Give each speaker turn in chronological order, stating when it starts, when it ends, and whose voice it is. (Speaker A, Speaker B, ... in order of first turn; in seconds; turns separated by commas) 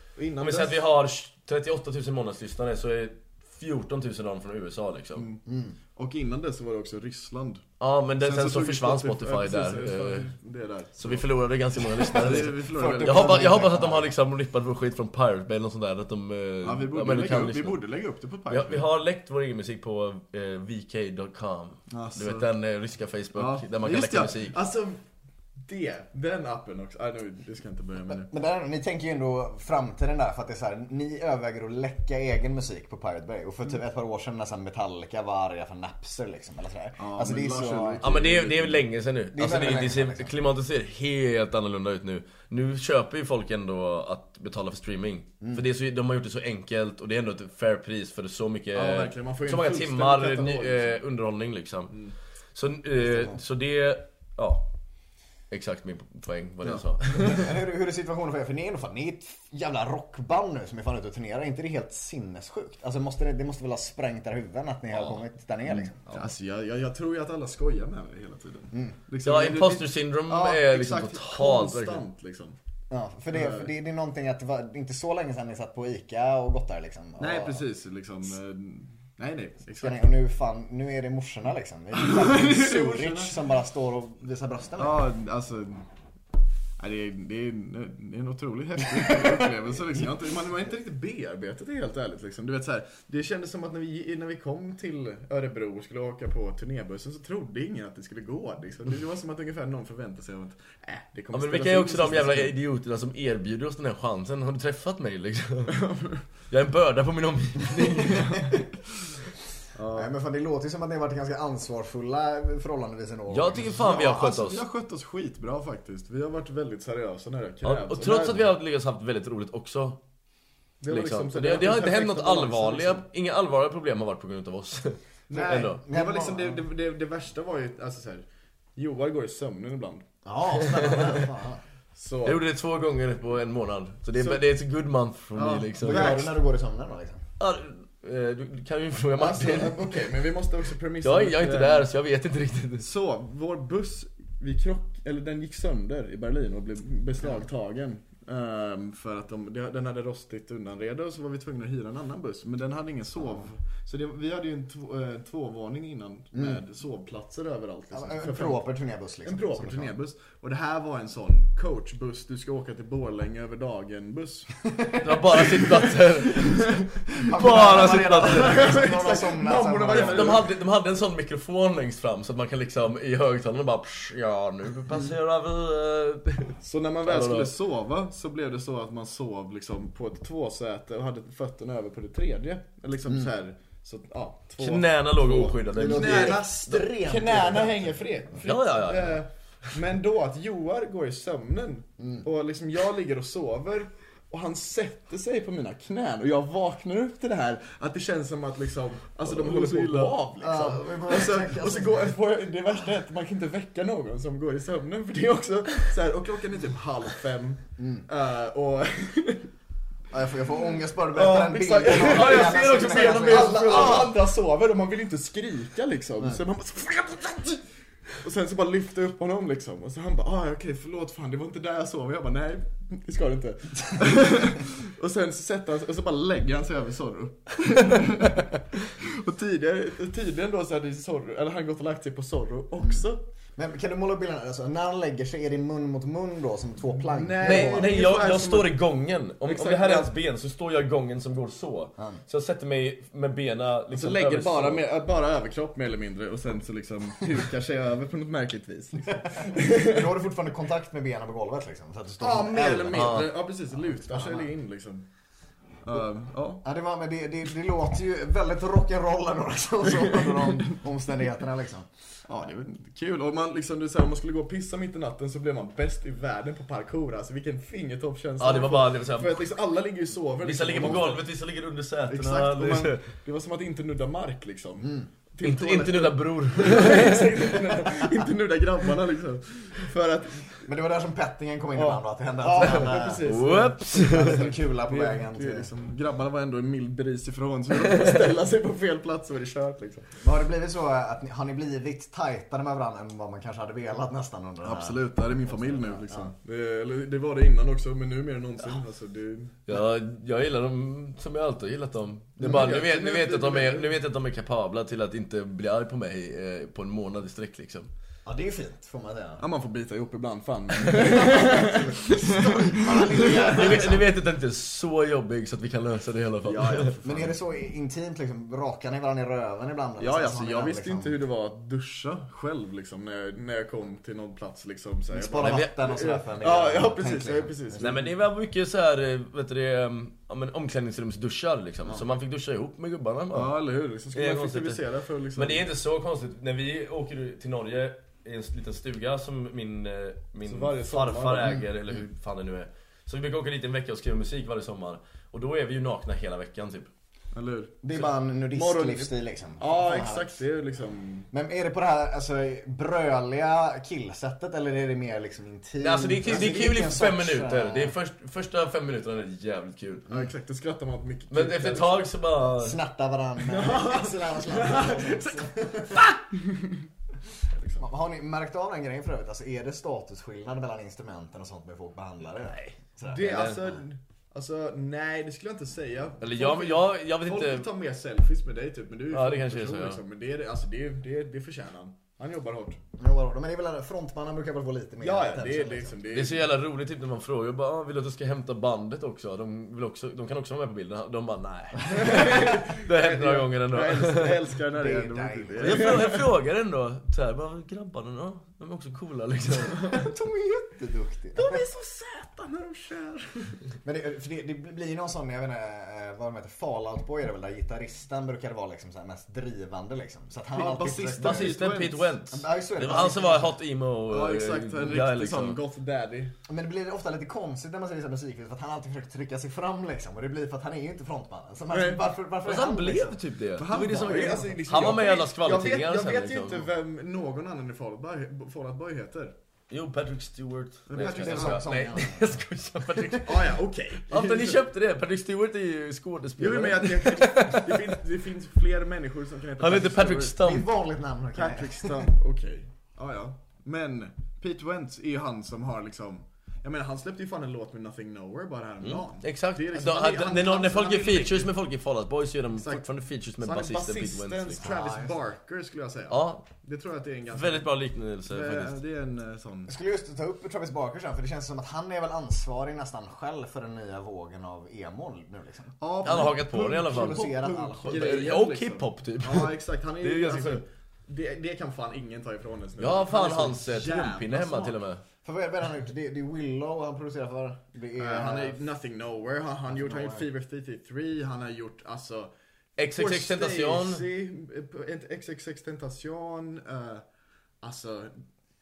Speaker A: 0.2-0.9, Speaker B: 0.4-5.3, Speaker A: 5.2-5.4, Speaker C: 5.5-5.8, Speaker A: 6.0-7.7, Speaker B: 7.8-10.3, Speaker A: 8.2-13.8, Speaker B: 11.0-17.8, Speaker C: 12.2-14.1, Speaker A: 16.6-18.9, Speaker B: 18.5-24.6, Speaker A: 21.9-22.5, Speaker A: 23.4-25.0, Speaker A: 25.7-28.3, Speaker C: 28.1-38.0, Speaker A: 37.0-38.9, Speaker B: 38.0-52.0, Speaker C: 39.3-40.3, Speaker A: 48.7-51.0, Speaker B: 52.5-54.6, Speaker B: 55.5-57.3, Speaker A: 56.6-57.5, Speaker C: 57.2-66.3, Speaker A: 65.7-72.6, Speaker C: 68.7-69.0, Speaker B: 69.2-72.0, Speaker C: 72.9-77.6, Speaker A: 73.3-73.7, Speaker A: 77.2-80.0, Speaker C: 79.8-85.1, Speaker A: 82.0-83.4, Speaker A: 84.8-85.8, Speaker A: 86.8-102.6, Speaker C: 89.1-89.4, Speaker B: 101.3-105.8, Speaker A: 105.7-106.2, Speaker B: 106.5-108.5, Speaker A: 108.0-108.5, Speaker A: 109.8-110.1, Speaker C: 109.9-113.8, Speaker B: 113.3-114.6, Speaker A: 113.6-118.5, Speaker B: 117.6-120.0, Speaker A: 120.8-123.0, Speaker B: 120.9-125.8, Speaker A: 125.3-128.2, Speaker C: 125.3-126.6, Speaker A: 128.8-130.1, Speaker C: 130.2-131.6, Speaker B: 130.7-131.2, Speaker A: 131.9-132.4, Speaker B: 132.2-136.1, Speaker A: 134.1-134.4, Speaker A: 135.3-136.4, Speaker C: 135.8-137.2, Speaker B: 137.4-139.8, Speaker A: 139.1-141.9, Speaker B: 141.0-142.9, Speaker A: 142.8-158.7, Speaker C: 156.3-156.6, Speaker C: 157.9-160.0, Speaker A: 159.2-164.6, Speaker B: 165.0-168.7, Speaker C: 167.2-170.4, Speaker A: 167.7-170.5, Speaker B: 169.9-177.5, Speaker A: 176.6-185.1, Speaker B: 184.6-186.5, Speaker C: 185.2-188.0, Speaker A: 185.7-209.5, Speaker B: 188.4-189.2, Speaker C: 192.0-192.2, Speaker B: 199.2-200.2, Speaker C: 200.4-202.1, Speaker C: 207.8-208.1, Speaker C: 210.1-214.1, Speaker A: 211.2-217.6, Speaker B: 211.2-214.1, Speaker A: 218.2-233.2, Speaker C: 233.6-238.1, Speaker A: 237.0-238.8, Speaker B: 237.4-244.8, Speaker A: 239.4-240.1, Speaker A: 243.9-250.1, Speaker C: 249.3-254.5, Speaker A: 252.2-255.1, Speaker B: 252.9-253.3, Speaker A: 255.8-256.6, Speaker C: 256.6-261.9, Speaker A: 260.1-260.7, Speaker A: 262.3-271.3, Speaker B: 268.4-269.5, Speaker B: 270.4-273.0, Speaker A: 272.1-280.7, Speaker C: 274.8-275.1, Speaker B: 275.4-277.3, Speaker C: 280.6-283.3, Speaker A: 281.8-290.1, Speaker B: 283.2-284.3, Speaker C: 283.9-285.7, Speaker C: 290.2-296.3, Speaker A: 294.6-299.7, Speaker B: 299.7-307.9, Speaker A: 302.4-304.0, Speaker C: 308.2-309.4, Speaker A: 309.4-313.9, Speaker C: 311.1-314.0, Speaker B: 313.2-317.0, Speaker A: 316.4-317.3, Speaker C: 317.0-321.2, Speaker A: 320.0-328.0, Speaker C: 325.1-328.0, Speaker B: 325.4-325.7, Speaker B: 327.8-333.5, Speaker A: 333.3-335.7, Speaker B: 334.1-334.8, Speaker B: 335.4-346.9, Speaker A: 340.4-341.6, Speaker A: 347.3-347.8, Speaker C: 347.8-350.4, Speaker A: 348.5-351.3, Speaker C: 351.3-357.9, Speaker B: 355.8-360.1, Speaker A: 360.1-362.1, Speaker B: 361.3-362.8, Speaker C: 362.4-366.1, Speaker A: 363.5-365.4, Speaker A: 366.0-366.8, Speaker A: 367.5-367.9, Speaker C: 367.8-373.8, Speaker B: 372.4-373.6, Speaker A: 373.1-382.8, Speaker B: 376.2-377.7, Speaker B: 379.1-380.0, Speaker C: 383.0-386.0, Speaker A: 385.0-386.5, Speaker B: 386.1-394.3, Speaker A: 391.9-396.2, Speaker C: 394.7-396.1, Speaker B: 395.6-399.8, Speaker C: 399.9-401.6, Speaker A: 401.3-403.6, Speaker C: 403.8-411.6, Speaker A: 410.5-412.1, Speaker B: 411.2-415.6, Speaker C: 412.3-413.6, Speaker A: 414.1-416.4, Speaker C: 416.5-423.2, Speaker A: 421.7-422.1, Speaker B: 422.4-426.6, Speaker A: 423.6-429.3, Speaker B: 429.7-433.5, Speaker A: 430.9-431.7, Speaker C: 431.0-432.4, Speaker A: 433.2-434.6, Speaker B: 434.1-437.8, Speaker A: 436.4-440.4, Speaker B: 439.6-440.6, Speaker C: 440.4-442.0, Speaker A: 441.3-451.5, Speaker B: 448.8-454.6, Speaker A: 452.5-452.9, Speaker A: 453.4-457.7, Speaker C: 454.6-455.2, Speaker B: 456.1-456.4, Speaker B: 457.3-458.8, Speaker A: 458.3-459.7, Speaker C: 459.7-468.2, Speaker A: 465.8-474.8, Speaker B: 466.0-470.6, Speaker B: 472.8-475.0, Speaker C: 475.2-478.6, Speaker A: 478.0-482.3, Speaker C: 479.7-480.3, Speaker B: 482.8-484.1, Speaker A: 482.9-487.0, Speaker A: 487.6-488.1